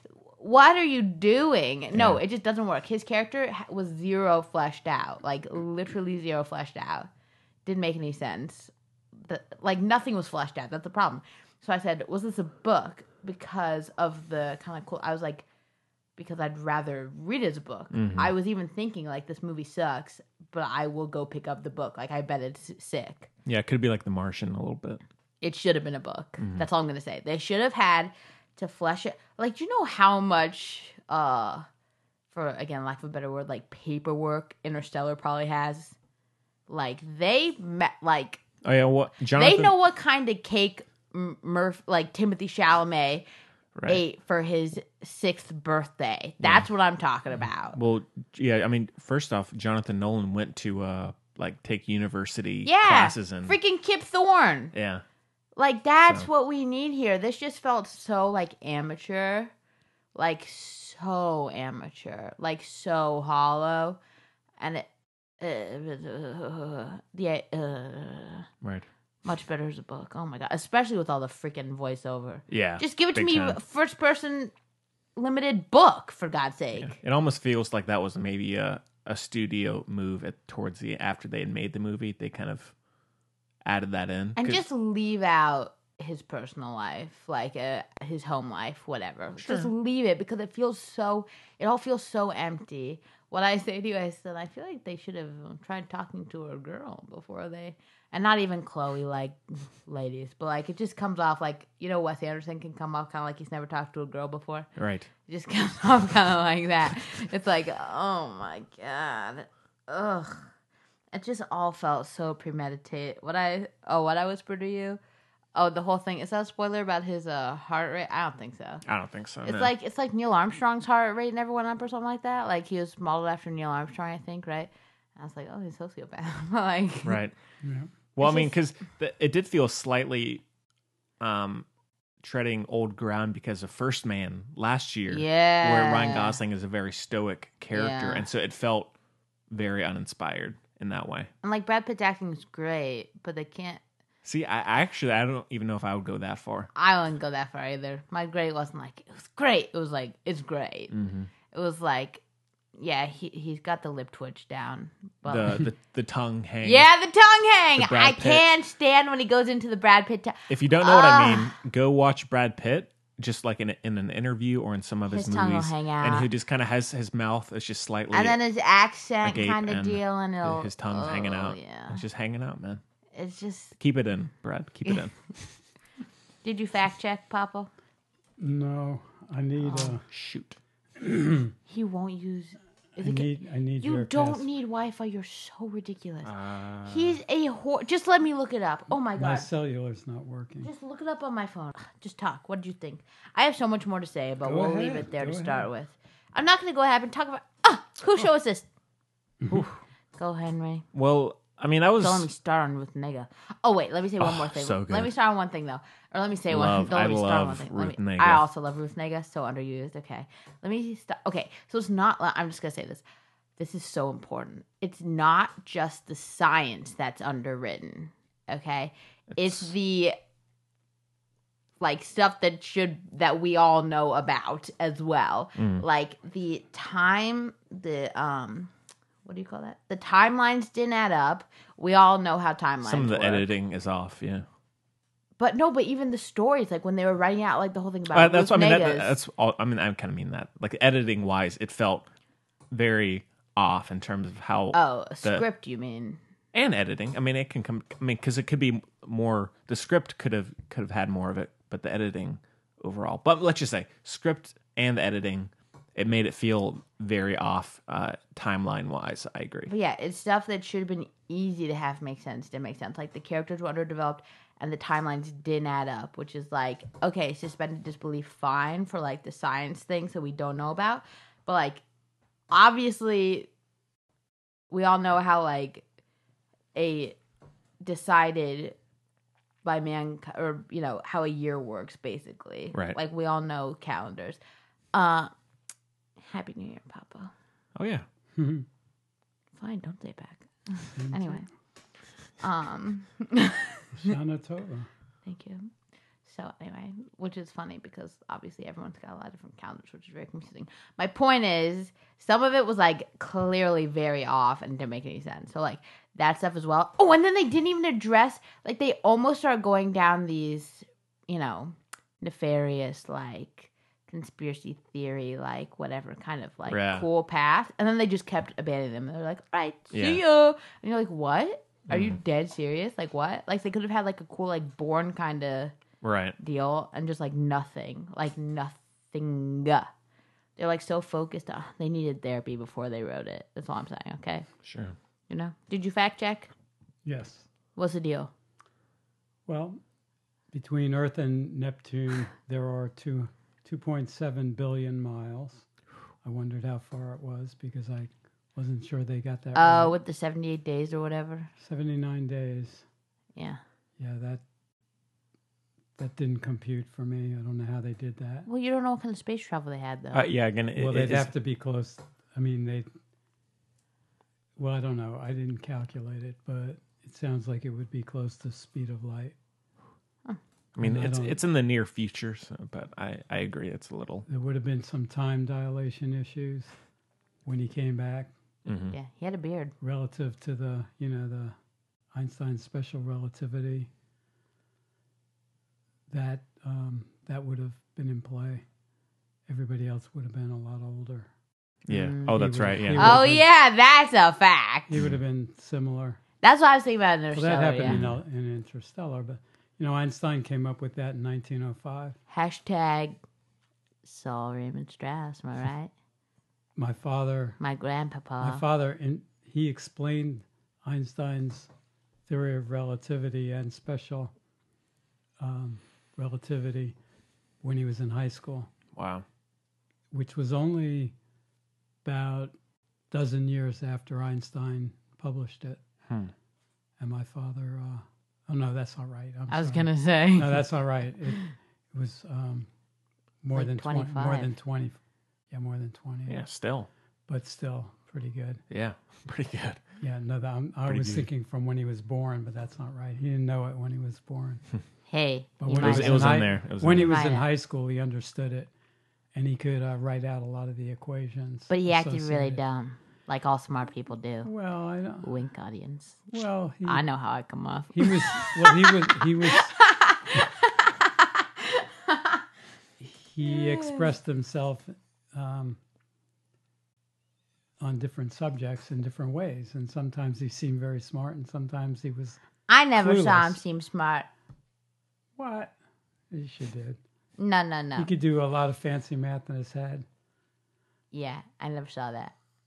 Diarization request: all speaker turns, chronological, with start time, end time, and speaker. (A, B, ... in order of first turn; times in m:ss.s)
0:00.4-0:07.1 A
0:01.9-0:02.2 B
0:07.6-0:15.4 A
0:16.2-0:23.3 A
0:17.9-0:18.3 B
0:23.4-0:25.0 B
0:25.4-0:31.6 A
0:26.4-0:26.6 B
0:32.3-0:35.9 A
0:36.7-0:38.4 A
0:38.6-0:39.7 B
0:39.3-0:43.2 A
0:43.8-0:44.0 B
0:43.8-0:47.8 A
0:47.7-0:53.6 B
0:52.6-0:54.7 A
0:54.7-0:55.0 B
0:55.6-0:59.5 A
1:00.1-1:04.0 A
1:04.6-1:04.9 A
1:05.4-1:08.5 A
1:09.2-1:14.5 A
1:12.5-1:13.6 B
1:15.2-1:17.0 A
1:16.8-1:22.7 B
1:23.6-1:24.6 B
1:24.4-1:44.7 A
1:29.4-1:29.7 B
1:44.8-1:45.1 B
1:45.3-1:50.4 A
1:51.1-1:55.0 A
1:55.5-1:58.8 A
1:58.8-1:59.7 B
1:59.4-2:07.2 A
2:07.0-2:07.3 B
2:07.6-2:07.9 C
2:08.1-2:10.4 B
2:08.2-2:08.5 A
2:11.2-2:11.6 B
2:12.2-2:18.9 B
2:15.1-2:16.4 A
2:17.7-2:18.2 A
2:19.5-2:21.3 B
2:21.4-2:23.8 A
2:24.2-2:26.7 B
2:26.7-2:30.9 A
2:30.9-2:31.3 B
2:31.5-2:32.2 A
2:32.8-2:35.6 A
2:35.2-2:36.9 B
2:36.6-2:41.5 A
2:37.8-2:38.4 B
2:40.5-2:48.4 B
2:45.1-2:46.3 A
2:48.1-2:52.0 A
2:49.2-2:52.8 B
2:53.1-2:53.8 A
2:53.8-2:55.1 B
2:56.4-2:57.7 A
2:58.4-3:00.0 C
2:59.6-3:00.0 A
3:00.1-3:00.6 B
3:01.0-3:01.5 C
3:01.7-3:06.3 A
3:03.0-3:04.5 C
3:06.2-3:07.2 B
3:06.9-3:09.5 A
3:09.1-3:10.7 C
3:10.6-3:18.6 A
3:14.4-3:15.7 C
3:19.5-3:19.8 B
3:20.2-3:20.9 A
3:20.9-3:22.3 B
3:22.0-3:33.0 A
3:24.2-3:25.1 B
3:26.5-3:28.4 B
3:33.6-3:40.2 A
3:39.3-3:39.7 B
3:41.8-3:48.7 A
3:45.6-3:45.8 B
3:49.2-3:53.5 A
3:52.8-3:54.4 B
3:55.4-3:59.1 A
3:58.1-4:02.0 B
4:02.7-4:05.4 B
4:04.7-4:06.2 A
4:06.5-4:19.7 B
4:19.7-4:31.8 A
4:32.5-4:33.5 A
4:34.7-4:35.8 A
4:36.7-4:37.2 A
4:37.8-4:38.8 A
4:39.6-4:44.4 A
4:44.9-4:45.3 A
4:46.2-4:47.3 A
4:47.8-4:48.0 B
4:48.4-4:48.6 C
4:49.6-4:51.4 A
4:51.0-4:51.4 C
4:52.4-4:54.1 A
4:54.0-4:54.9 C
4:55.2-4:55.7 A
4:56.2-5:25.7 A
5:16.7-5:17.0 B
5:19.9-5:20.2 B
5:21.9-5:22.2 B
5:26.0-5:26.4 B
5:26.4-5:29.9 A
5:30.6-5:34.5 A
5:34.6-5:34.9 B
5:35.3-5:36.5 A
5:37.0-5:37.4 C
5:37.8-5:38.3 A
5:39.4-5:39.8 C
5:40.5-5:45.6 C
5:46.2-5:50.0 C
5:49.5-5:51.5 A
5:51.6-5:52.8 C
5:54.0-5:54.4 C
5:56.0-5:58.5 C
5:58.4-6:00.3 A
6:00.1-6:01.3 B
6:00.8-6:02.9 C
6:04.6-6:09.3 C
6:10.8-6:14.2 B
6:10.8-6:11.4 C
6:14.3-6:16.7 C
6:17.4-6:18.3 C
6:18.6-6:18.9 B
6:18.9-6:19.7 A
6:19.8-6:21.6 C
6:22.1-6:23.9 C
6:26.1-6:28.6 C
6:29.5-6:31.3 C
6:31.9-6:33.2 B
6:31.9-6:32.2 A
6:32.1-6:33.4 C
6:33.0-6:34.9 A
6:34.9-6:36.2 C
6:36.4-6:38.0 A
6:37.3-6:42.2 C
6:37.9-6:38.2 B
6:42.3-6:43.2 A
6:44.0-6:45.9 A
6:46.8-6:47.6 C
6:47.6-6:48.6 A
6:48.4-6:51.7 C
6:52.3-6:54.3 C
6:55.4-6:57.0 C
6:57.6-6:58.7 C
6:59.0-6:59.2 B
7:00.1-7:01.1 C
7:02.0-7:02.5 C
7:03.1-7:05.8 C
7:07.0-7:12.7 C
7:09.5-7:10.8 A
7:13.4-7:15.0 C
7:13.5-7:14.5 A
7:15.5-7:16.4 C
7:16.3-7:16.9 B
7:17.3-7:18.6 C
7:18.7-7:19.8 B
7:20.0-7:24.6 C
7:20.8-7:21.3 B
7:25.1-7:27.5 A
7:25.6-7:28.7 C
7:25.7-7:27.1 B
7:29.3-7:32.6 C
7:31.7-7:34.5 A
7:34.4-7:35.3 C
7:35.2-7:36.3 A
7:36.3-7:37.0 C
7:36.8-7:42.4 A
7:37.9-7:39.7 C
7:43.0-7:45.8 C
7:43.4-7:44.1 A
7:47.8-7:52.4 C
7:52.7-7:54.3 A
7:53.0-7:53.6 C
7:55.4-7:55.7 C
7:56.3-7:57.0 C
7:57.4-7:58.1 A
7:58.0-8:00.0 C
8:01.1-8:02.3 A